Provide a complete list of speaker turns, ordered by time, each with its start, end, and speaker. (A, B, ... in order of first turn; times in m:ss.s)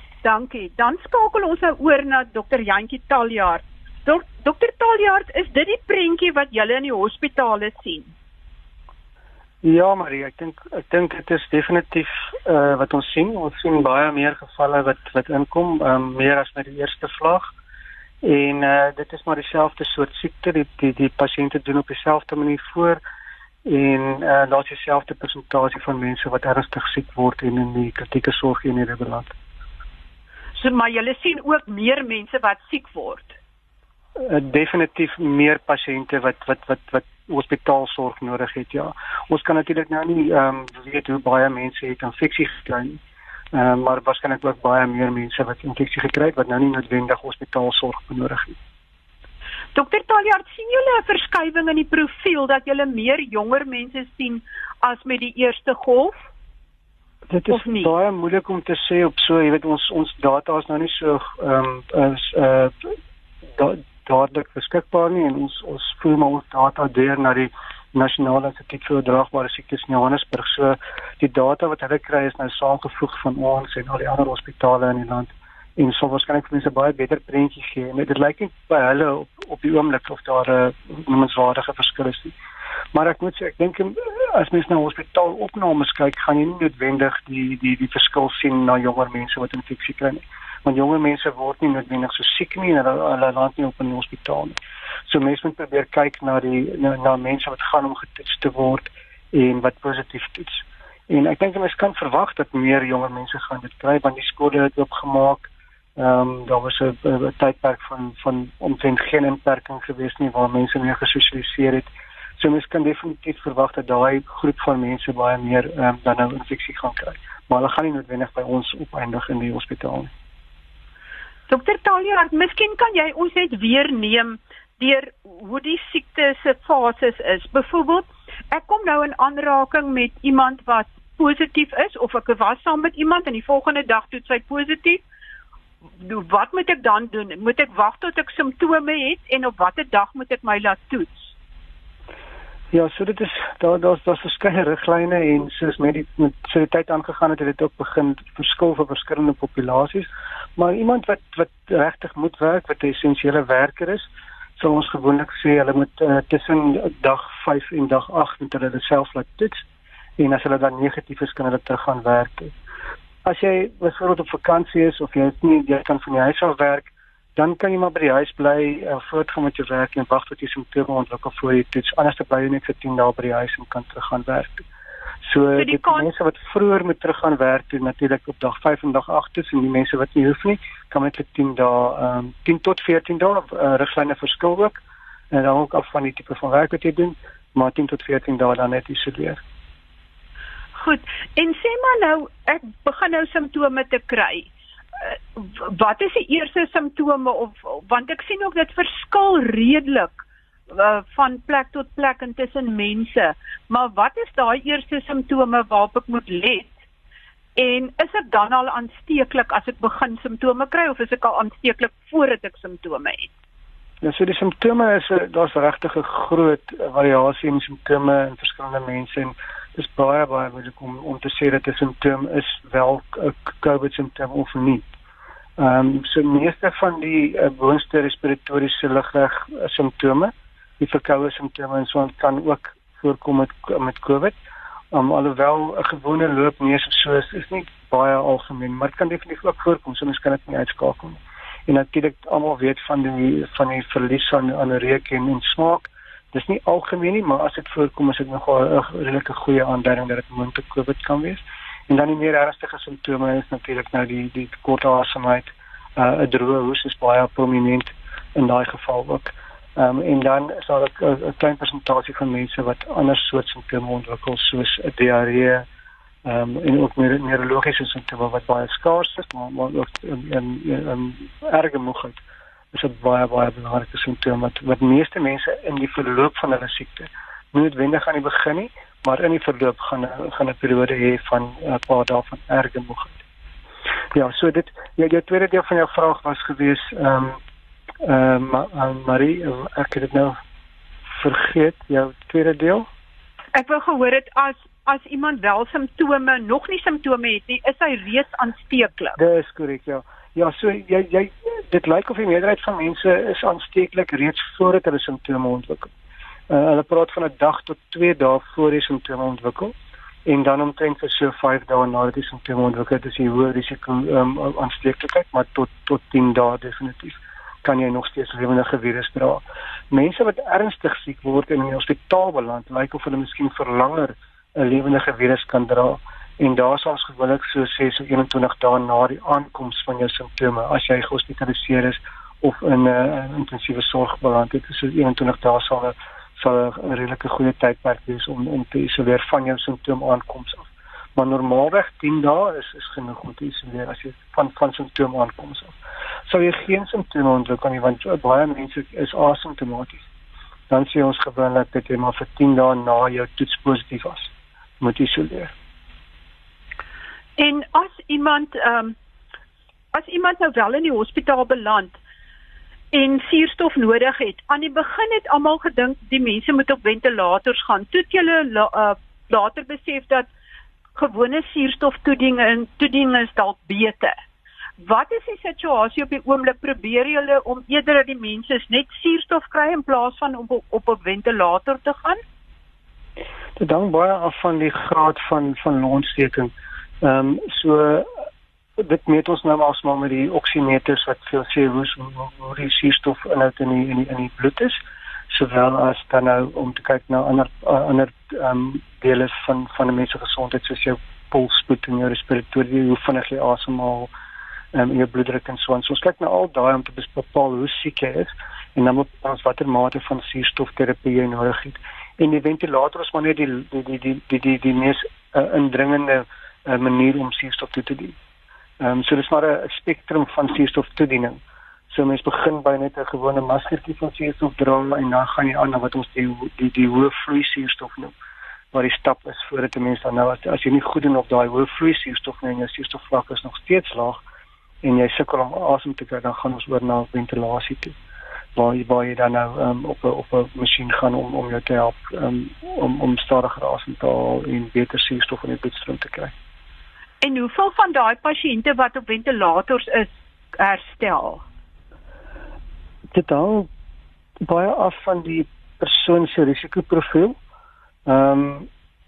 0:00.2-0:08.1 A
0:09.6-0:17.4 B
0:18.2-0:23.0 B
0:23.6-0:29.3 B
0:30.6-0:33.3 A
0:34.2-0:43.0 B
0:43.5-0:48.6 B
0:49.7-0:56.1 A
0:57.3-1:02.9 B
0:57.5-0:57.9 A
1:03.5-1:22.3 B
1:22.9-2:00.1 B
2:01.5-2:15.0 A
2:16.0-2:21.3 A
2:22.7-2:39.6 B
2:40.2-2:42.5 B
2:43.2-2:54.6 B
2:55.2-3:09.4 B
2:55.6-2:56.1 A
3:10.8-3:14.5 A
3:15.0-3:26.7 A
3:27.6-3:33.3 A
3:34.0-3:44.8 B
3:45.6-3:54.4 B
3:54.9-4:25.6 B
4:26.2-4:32.2 B
4:32.7-4:43.2 B
4:44.1-4:47.4 B
4:48.0-4:50.4 B
4:51.1-4:52.9 B
4:53.5-4:59.2 A
4:59.2-5:05.9 B
5:06.5-5:09.7 B
5:10.2-5:50.0 B
5:50.7-5:55.5 B
5:57.4-5:58.9 A
5:59.9-6:02.0 A
6:02.9-6:10.3 A
6:10.9-6:14.1 A
6:14.8-6:22.2 A
6:23.6-6:28.1 B
6:28.8-6:34.8 B
6:35.3-6:44.1 B
6:44.7-6:58.2 B
6:58.8-7:08.1 B
7:08.7-7:14.2 B
7:14.8-7:18.0 B
7:18.5-7:26.3 B
7:27.2-7:31.4 A
7:33.1-7:33.7 B
7:34.4-7:37.4 B
7:38.0-7:38.7 B